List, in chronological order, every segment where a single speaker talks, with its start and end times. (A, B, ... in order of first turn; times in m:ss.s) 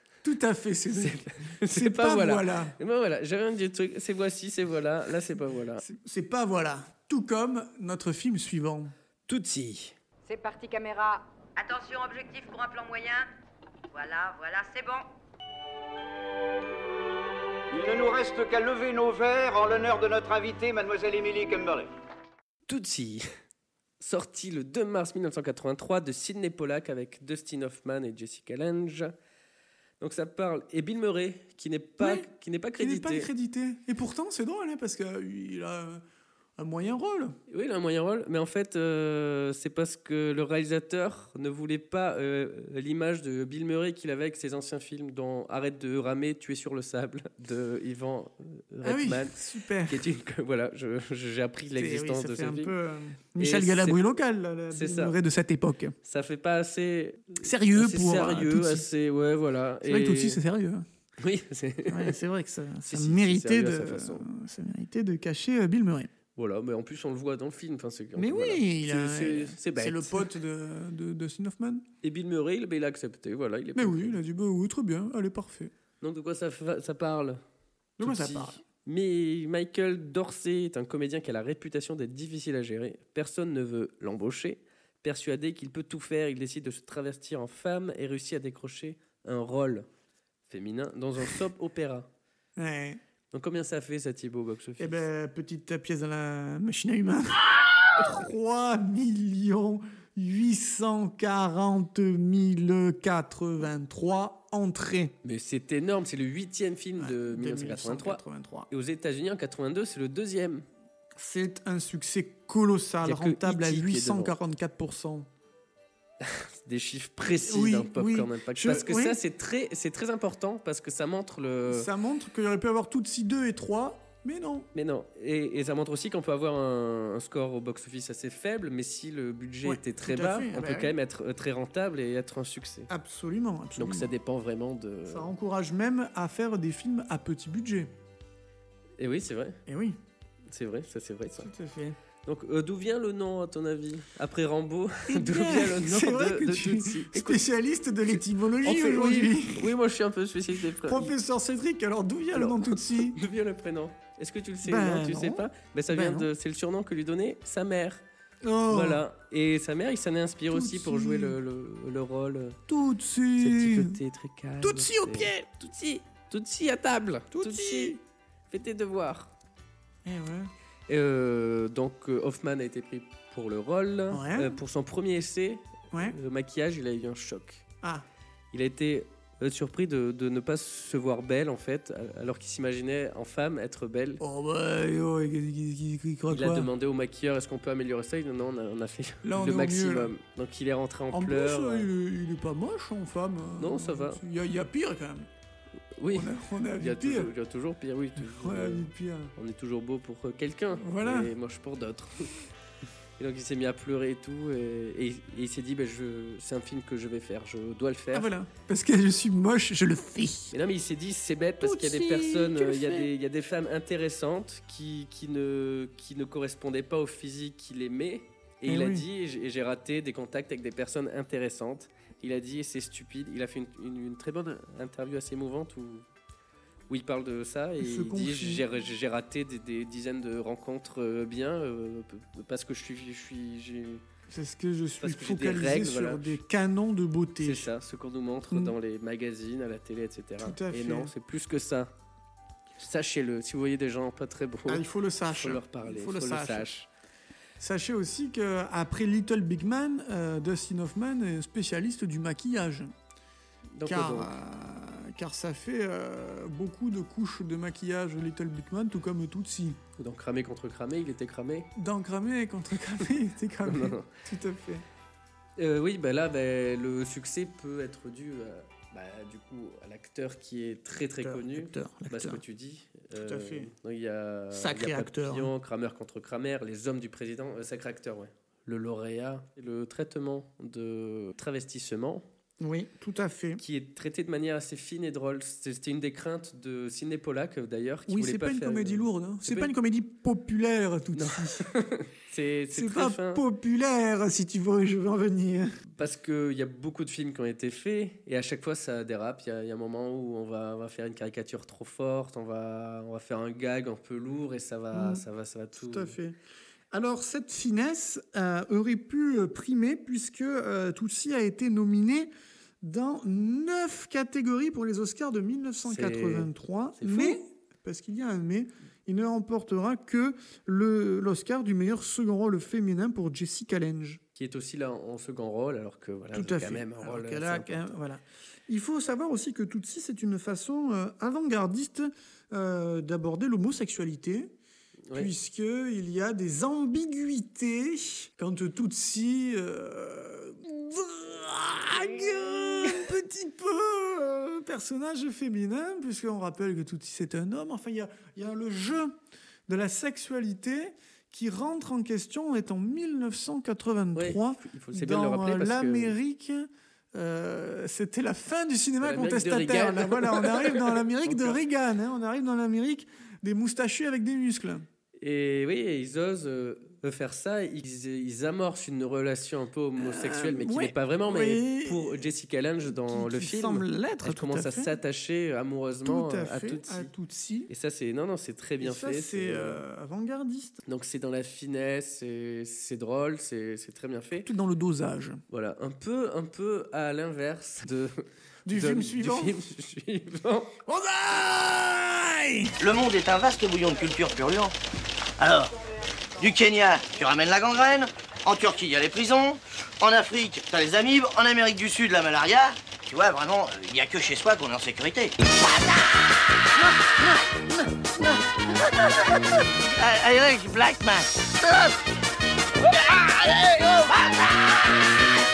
0:00.2-0:02.8 A
0:00.9-0:05.8 B
0:05.8-0:08.9 A
0:09.3-0:10.0 B
0:10.2-0:13.3 C
0:13.9-0:15.1 C
0:17.7-0:21.9 D
0:22.7-0:23.3 B
0:24.0-0:29.1 B
0:30.0-0:33.3 B
0:32.0-0:36.0 A
0:36.6-0:37.4 A
0:37.5-0:49.4 B
0:48.8-0:50.1 A
0:49.9-0:52.7 B
0:51.8-0:56.0 A
0:53.4-0:54.0 B
0:54.7-0:55.2 B
0:56.0-1:00.4 B
0:57.4-0:58.9 A
0:59.8-1:00.8 A
1:01.2-1:02.2 B
1:01.9-1:06.1 A
1:02.8-1:04.3 B
1:06.4-1:10.3 B
1:08.2-1:11.8 A
1:12.0-1:14.2 B
1:13.8-1:15.7 A
1:16.0-1:17.4 B
1:18.0-1:18.6 A
1:18.0-1:29.9 B
1:30.5-1:32.1 B
1:32.6-1:33.0 A
1:33.3-1:35.0 B
1:34.8-1:45.2 A
1:45.2-1:50.6 B
1:47.0-1:48.7 A
1:51.2-1:55.3 A
1:53.0-1:54.4 B
1:56.2-2:01.9 B
1:57.3-1:59.2 A
2:01.7-2:04.7 A
2:04.7-2:12.9 B
2:09.6-2:10.9 A
2:12.9-2:14.1 A
2:13.8-2:15.3 B
2:15.1-2:17.9 A
2:19.0-2:19.6 B
2:19.7-2:20.0 A
2:20.5-2:21.5 B
2:21.4-2:22.0 A
2:22.2-2:27.4 B
2:25.1-2:29.7 A
2:28.6-2:31.1 B
2:30.7-2:33.2 A
2:32.3-2:38.0 B
2:34.6-2:36.3 A
2:38.4-2:39.0 A
2:38.7-2:42.6 B
2:40.5-2:41.4 A
2:42.7-2:44.0 A
2:43.4-2:48.0 B
2:44.6-2:45.5 A
2:47.3-2:48.0 A
2:48.5-2:49.3 B
2:50.0-2:50.5 A
2:50.9-2:57.6 B
2:54.1-2:54.6 A
2:55.9-2:56.2 A
2:58.5-3:04.2 B
3:04.2-3:06.7 A
3:06.3-3:11.9 B
3:09.2-3:10.1 A
3:11.1-3:15.3 A
3:13.6-3:14.2 B
3:16.0-3:22.3 B
3:16.1-3:17.3 A
3:18.2-3:19.3 A
3:20.8-3:21.3 A
3:23.2-3:28.3 B
3:28.1-3:30.5 A
3:30.5-3:46.0 B
3:31.6-3:33.1 A
3:38.7-3:39.1 A
3:46.9-3:54.0 B
3:47.8-3:48.7 A
3:54.3-3:57.7 A
3:55.0-3:56.4 B
3:57.4-4:01.9 B
3:58.5-3:58.8 A
4:00.4-4:01.1 A
4:02.8-4:06.9 B
4:04.7-4:06.7 A
4:07.6-4:12.9 A
4:13.8-4:14.4 B
4:13.8-4:19.8 A
4:20.0-4:21.7 B
4:21.8-4:24.8 A
4:23.6-4:24.1 B
4:25.6-4:42.2 B
4:31.2-4:32.4 A
4:33.2-4:33.7 A
4:34.5-4:35.5 A
4:42.6-4:43.6 A
4:43.6-4:49.7 B
4:48.1-4:51.7 A
4:51.2-4:53.4 B
4:52.7-4:55.7 A
4:56.0-5:06.2 B
5:04.9-5:05.2 A
5:05.8-5:06.4 A
5:06.9-5:12.3 A
5:12.8-5:24.2 A
5:15.8-5:17.4 B
5:24.4-5:27.9 B
5:26.3-5:34.5 A
5:35.1-6:04.9 A
5:54.2-5:56.1 B
5:59.0-6:01.6 B
6:05.2-6:17.1 B
6:10.0-6:12.3 A
6:12.8-6:15.0 A
6:16.0-6:17.7 A
6:17.7-6:19.8 B
6:18.8-6:20.8 A
6:20.9-6:24.5 B
6:24.4-6:25.4 A
6:25.5-6:30.8 B
6:28.7-6:29.6 A
6:30.8-6:32.7 A
6:32.8-6:34.7 E
6:35.4-6:35.8 E
6:36.4-6:52.0 E
6:52.8-6:55.2 E